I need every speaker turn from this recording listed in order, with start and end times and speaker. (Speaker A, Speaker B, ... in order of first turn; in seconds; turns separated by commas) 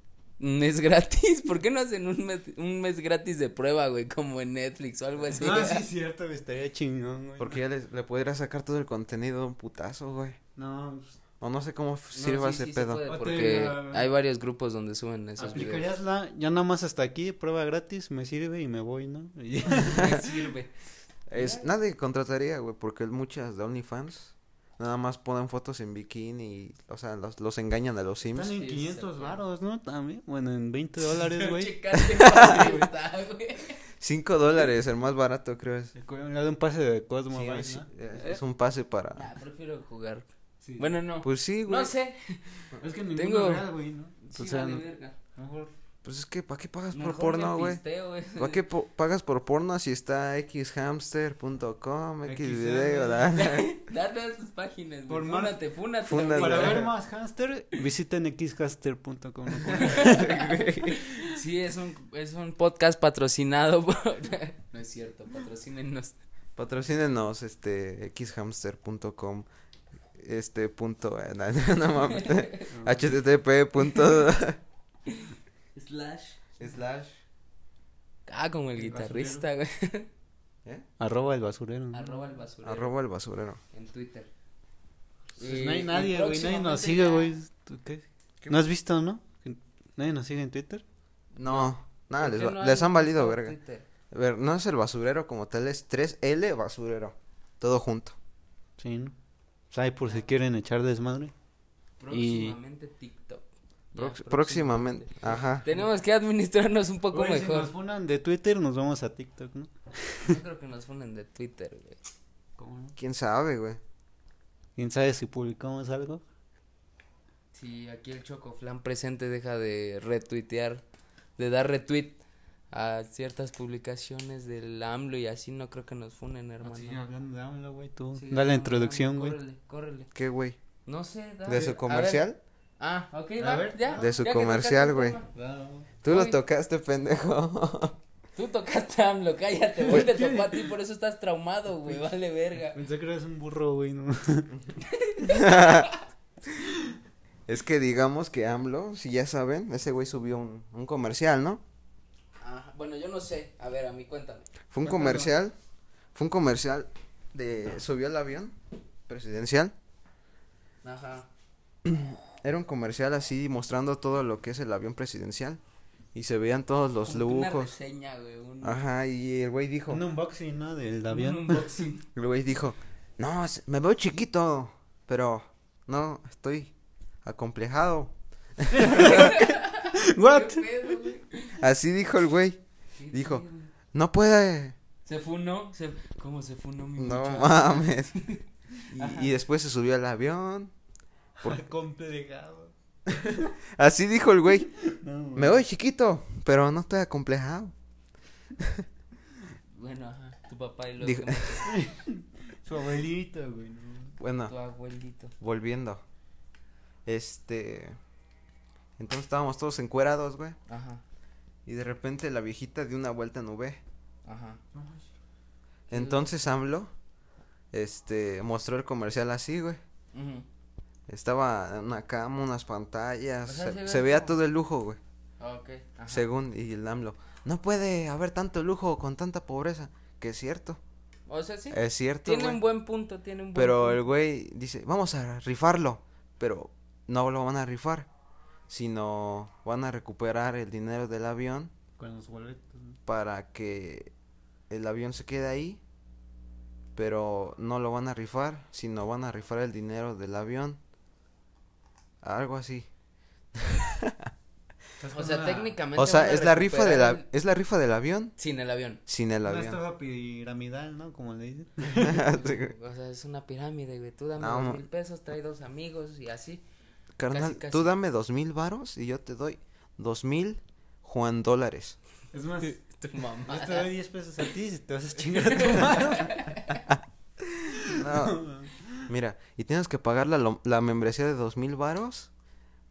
Speaker A: 0.4-5.8, Speaker B: 5.3-7.6, Speaker C: 7.4-10.4, Speaker B: 10.6-11.2, Speaker C: 11.4-13.0, Speaker A: 12.1-15.9, Speaker B: 13.1-14.1, Speaker B: 15.4-20.4, Speaker A: 19.7-20.7, Speaker C: 21.3-28.6, Speaker A: 21.3-21.7, Speaker B: 28.3-31.7, Speaker A: 28.5-29.4, Speaker A: 31.1-33.8, Speaker C: 32.0-32.7, Speaker B: 32.4-32.9, Speaker C: 34.0-35.9, Speaker B: 36.0-38.4, Speaker C: 37.3-39.3, Speaker A: 39.1-42.6, Speaker B: 40.6-40.9, Speaker C: 41.2-41.9, Speaker B: 42.8-44.8, Speaker A: 43.1-43.7, Speaker A: 44.2-45.1, Speaker B: 45.3-45.7, Speaker C: 46.0-47.8, Speaker A: 46.9-48.6, Speaker C: 48.4-53.6, Speaker B: 52.2-53.3, Speaker A: 53.3-56.9, Speaker B: 55.1-55.6, Speaker C: 56.1-56.9, Speaker B: 56.2-60.4, Speaker C: 59.6-61.0, Speaker A: 59.7-66.2, Speaker C: 66.6-69.5, Speaker C: 70.2-74.6, Speaker A: 72.1-72.7, Speaker B: 72.7-73.1, Speaker A: 75.1-76.4, Speaker C: 76.6-77.1, Speaker A: 78.3-80.1, Speaker B: 78.8-79.5, Speaker B: 81.0-82.3, Speaker A: 81.9-82.9, Speaker C: 82.6-83.6, Speaker A: 83.7-84.3, Speaker A: 85.4-87.3, Speaker B: 85.4-90.8, Speaker C: 91.3-93.5, Speaker A: 91.4-93.8, Speaker C: 94.1-98.2, Speaker B: 98.8-99.1, Speaker B: 99.7-101.3, Speaker A: 102.0-107.7, Speaker B: 102.1-102.6, Speaker C: 104.0-105.6, Speaker B: 105.2-105.9, Speaker B: 107.1-110.4, Speaker A: 110.2-112.0, Speaker B: 112.6-112.9, Speaker C: 113.0-113.8, Speaker B: 114.8-116.2, Speaker A: 117.5-120.8, Speaker A: 121.4-122.2, Speaker A: 122.7-127.0, Speaker B: 126.6-129.4, Speaker A: 128.1-130.1, Speaker C: 130.1-130.6, Speaker A: 130.8-135.3, Speaker C: 131.4-132.4, Speaker B: 133.4-134.0, Speaker C: 133.9-135.2, Speaker B: 135.3-135.9, Speaker C: 136.0-138.0, Speaker A: 136.1-136.4, Speaker A: 138.3-142.8, Speaker B: 139.8-140.7, Speaker B: 142.6-144.6, Speaker A: 144.8-146.0, Speaker C: 145.2-145.9, Speaker B: 146.6-146.9, Speaker C: 147.5-151.6, Speaker A: 152.4-154.5, Speaker C: 154.7-155.5, Speaker B: 154.8-155.3, Speaker C: 156.1-158.6, Speaker C: 159.1-159.7, Speaker A: 160.8-161.3, Speaker C: 161.8-165.6, Speaker C: 166.1-167.7, Speaker A: 167.0-168.8, Speaker C: 168.6-170.0, Speaker B: 169.9-171.6, Speaker A: 171.1-172.1, Speaker C: 172.2-176.7, Speaker C: 177.2-179.4, Speaker B: 178.7-181.0, Speaker A: 178.8-181.6, Speaker C: 181.6-182.6, Speaker A: 183.0-183.7, Speaker C: 183.1-184.7, Speaker A: 185.1-189.3, Speaker C: 187.0-188.1, Speaker C: 188.9-190.7, Speaker B: 191.4-192.7, Speaker C: 193.1-194.7, Speaker B: 194.9-195.6, Speaker C: 195.3-197.7, Speaker C: 198.6-198.8, Speaker A: 199.7-201.8, Speaker C: 201.0-201.6, Speaker B: 201.7-204.2, Speaker C: 204.2-204.5, Speaker A: 204.5-205.3, Speaker C: 205.4-206.0, Speaker C: 207.1-208.0, Speaker C: 209.0-210.6, Speaker A: 210.7-211.0, Speaker C: 211.7-213.8, Speaker A: 214.2-214.6, Speaker B: 214.7-215.1, Speaker A: 215.9-216.3, Speaker C: 215.9-216.9, Speaker C: 217.7-219.8, Speaker A: 220.1-220.4, Speaker C: 221.1-225.0, Speaker A: 223.4-224.4, Speaker A: 225.4-226.2, Speaker C: 226.1-230.8, Speaker A: 231.3-234.0, Speaker C: 231.7-232.6, Speaker C: 233.5-238.1, Speaker C: 238.7-241.7, Speaker B: 242.0-243.0, Speaker C: 243.1-244.1, Speaker C: 244.7-245.8, Speaker C: 246.9-250.8, Speaker C: 252.2-252.9, Speaker C: 253.5-254.3, Speaker B: 255.0-255.7, Speaker A: 255.1-257.2, Speaker C: 255.9-258.3, Speaker A: 258.4-259.0, Speaker C: 259.1-259.8, Speaker B: 259.4-262.2, Speaker C: 261.9-262.7, Speaker A: 262.3-266.6, Speaker C: 264.4-264.8, Speaker C: 267.2-272.0, Speaker A: 267.3-267.9, Speaker B: 272.3-272.8, Speaker A: 272.6-273.9, Speaker B: 273.4-276.4, Speaker A: 275.4-276.8, Speaker C: 276.9-278.4, Speaker B: 277.7-279.1, Speaker C: 279.1-282.3